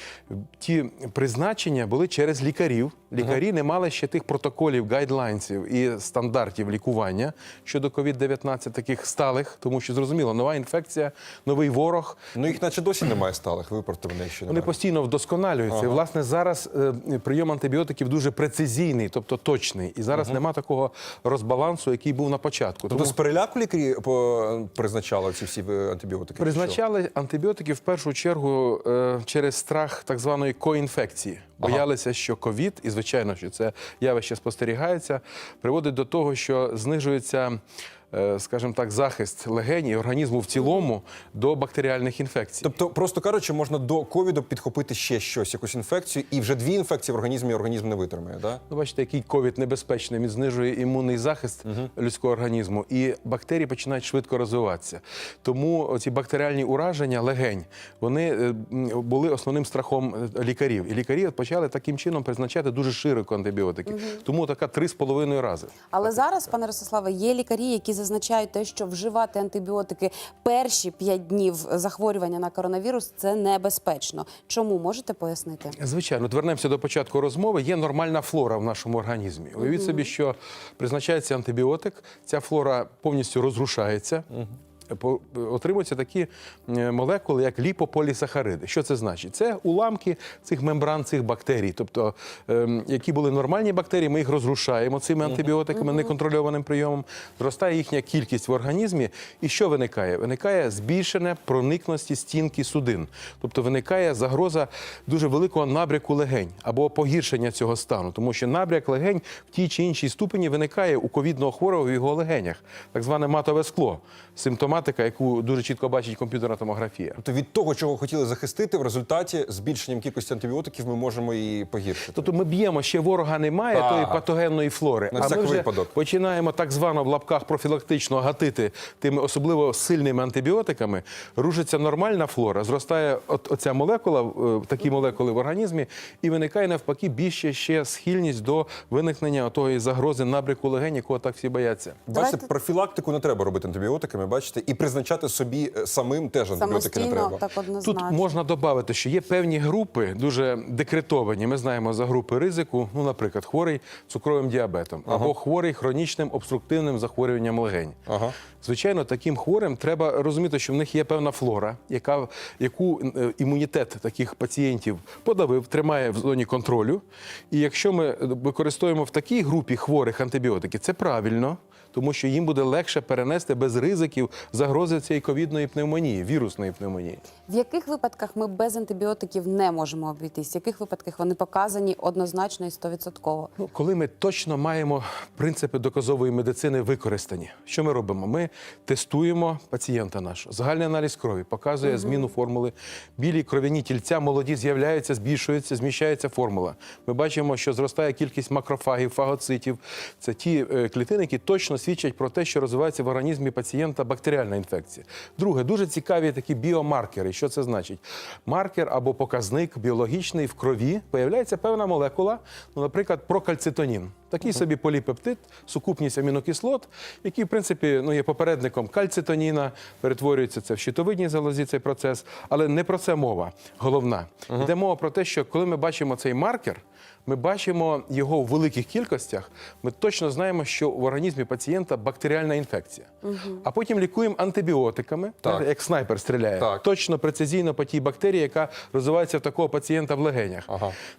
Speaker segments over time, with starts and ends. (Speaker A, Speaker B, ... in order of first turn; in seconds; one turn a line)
Speaker A: 0.3-12.3
Speaker B: 12.3-14.7
Speaker A: 14.5-23.1
Speaker B: 15.7-16.0
Speaker B: 20.1-20.4
Speaker B: 22.9-26.8
Speaker A: 26.4-37.6
Speaker A: 38.1-42.7
Speaker B: 42.6-48.6
Speaker A: 48.7-65.9
Speaker C: 63.9-64.2
Speaker C: 65.9-75.8
Speaker A: 75.8-84.3
Speaker C: 79.6-80.1
Speaker A: 84.9-117.2
Speaker B: 95.2-95.5
Speaker B: 117.2-122.3
Speaker A: 122.1-142.0
Speaker B: 123.7-124.2
Speaker B: 125.1-125.9
Speaker B: 142.1-147.4
Speaker C: 142.1-142.5
Speaker C: 146.6-148.2
Speaker A: 147.8-158.0
Speaker B: 155.1-155.3
Speaker B: 158.1-158.3
Speaker A: 158.6-177.2
Speaker C: 177.5-183.5
Speaker A: 183.6-240.7
Speaker C: 191.8-192.3
Speaker C: 233.2-233.6
Speaker B: 236.6-236.8
Speaker B: 240.7-240.9